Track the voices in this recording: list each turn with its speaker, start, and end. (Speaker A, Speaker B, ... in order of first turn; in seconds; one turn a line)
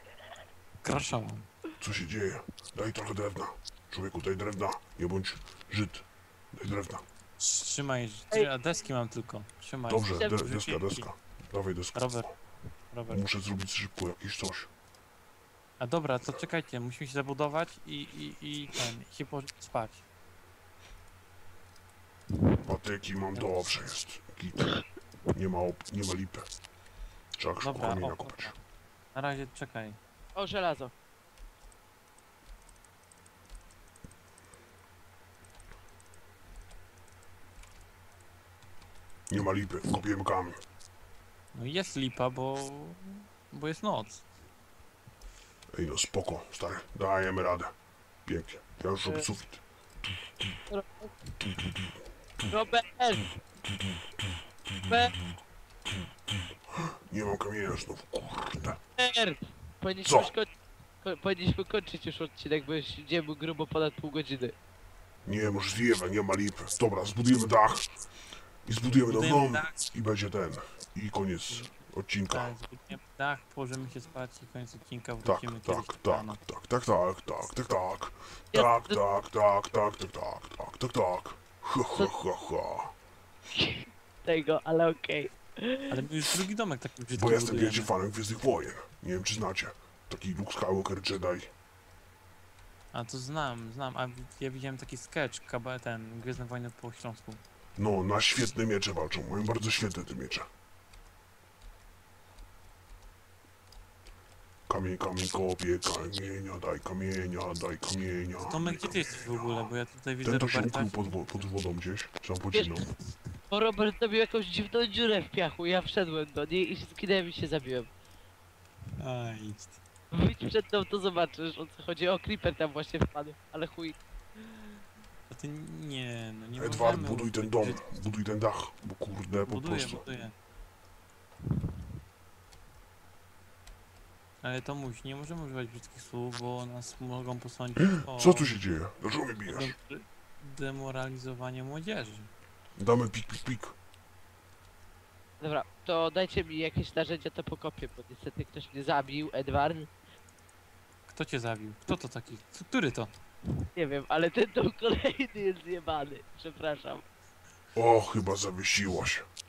Speaker A: 0.8-1.5
Speaker B: 1.8-7.0
Speaker A: 7.4-11.1
Speaker B: 9.9-12.2
Speaker A: 11.9-12.3
Speaker A: 12.9-13.2
Speaker B: 13.1-14.7
Speaker A: 15.8-20.0
Speaker B: 22.6-26.4
Speaker B: 27.4-28.6
Speaker A: 27.6-28.6
Speaker A: 29.1-30.0
Speaker C: 30.4-30.9
Speaker B: 39.3-40.6
Speaker A: 41.5-44.2
Speaker B: 45.7-47.7
Speaker B: 48.2-49.6
Speaker C: 50.7-51.1
Speaker B: 51.5-51.9
Speaker C: 52.5-53.2
Speaker C: 54.9-55.1
Speaker B: 57.1-58.8
Speaker C: 59.0-60.5
Speaker B: 60.0-60.3
Speaker C: 61.0-64.5
Speaker B: 65.2-67.9
Speaker B: 68.6-72.5
Speaker A: 69.0-69.8
Speaker A: 72.3-76.4
Speaker B: 75.2-82.9
Speaker C: 78.5-79.0
Speaker C: 83.5-86.0
Speaker A: 85.9-87.9
Speaker B: 87.2-91.5
Speaker A: 92.9-97.4
Speaker B: 97.8-100.5
Speaker B: 104.7-109.7
Speaker A: 108.4-111.5
Speaker B: 110.2-112.9
Speaker C: 113.5-117.9
Speaker A: 119.0-119.8
Speaker C: 120.1-124.0
Speaker A: 125.3-127.8
Speaker B: 126.6-130.0
Speaker A: 129.5-130.3
Speaker A: 134.4-138.5
Speaker B: 138.1-139.7
Speaker A: 139.5-142.3
Speaker B: 142.8-143.7
Speaker C: 145.4-149.9
Speaker A: 151.1-153.1
Speaker C: 153.8-157.0
Speaker B: 157.7-159.2